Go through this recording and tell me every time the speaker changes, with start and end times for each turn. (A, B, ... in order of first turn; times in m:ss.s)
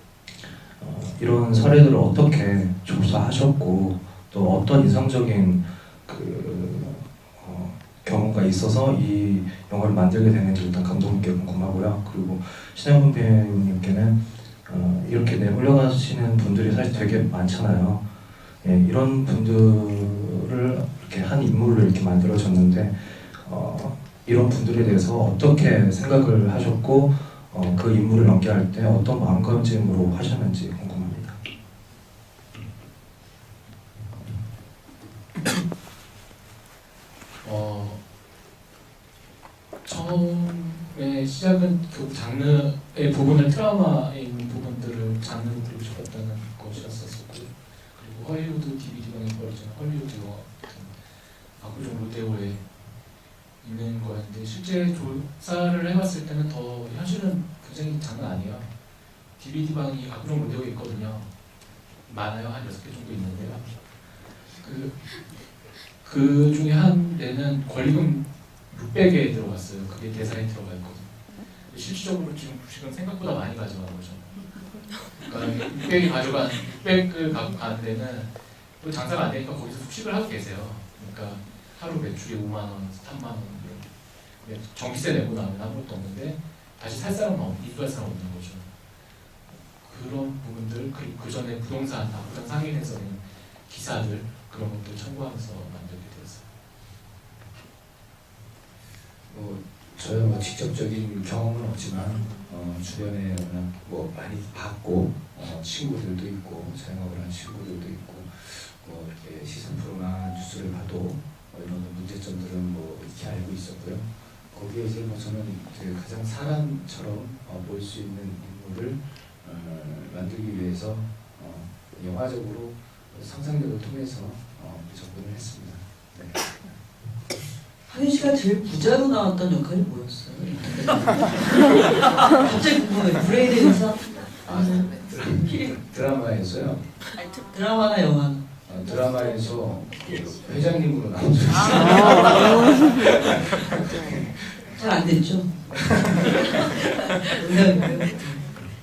0:00.3-0:18.1 A
0:18.6-0:31.4 A
0:37.4-0:38.0 B
0:39.8-0:51.0 B
0:51.6-0:52.7 B
0:53.6-0:58.7 B
0:59.4-1:01.3 B
1:02.0-1:03.7 B
1:04.5-1:05.1 B
1:06.0-1:14.4 B
1:15.2-1:28.7 B
1:29.8-1:36.4 B
1:39.3-2:06.4 C
2:07.9-2:11.3 D
2:12.1-2:15.7 D
2:14.4-2:16.8 C
2:17.5-2:18.4 D
2:18.6-2:24.1 C
2:24.8-2:25.5 D
2:27.3-2:28.4 D